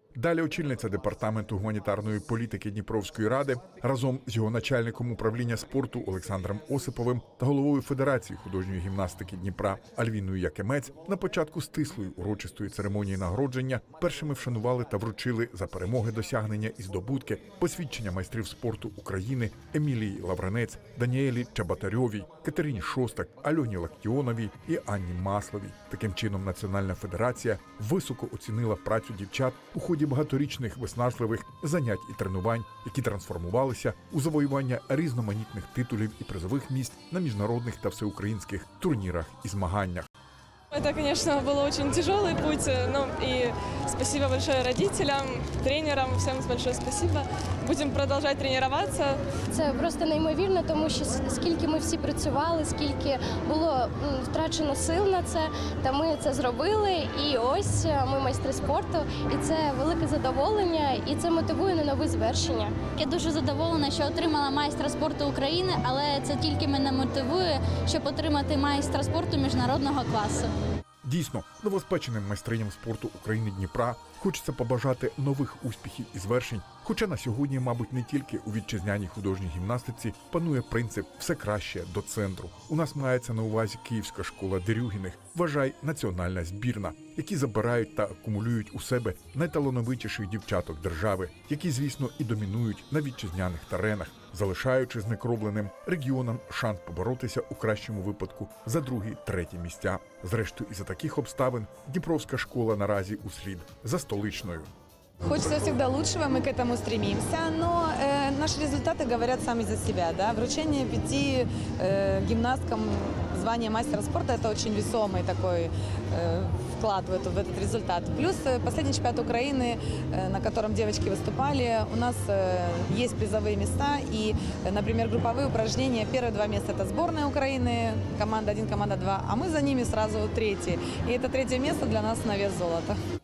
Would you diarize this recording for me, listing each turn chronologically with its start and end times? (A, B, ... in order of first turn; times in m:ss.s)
0:00.2-0:40.1 A
0:40.7-0:49.2 B
0:49.5-1:02.9 C
1:03.0-1:10.5 D
1:11.0-1:44.7 A
1:45.2-2:13.0 E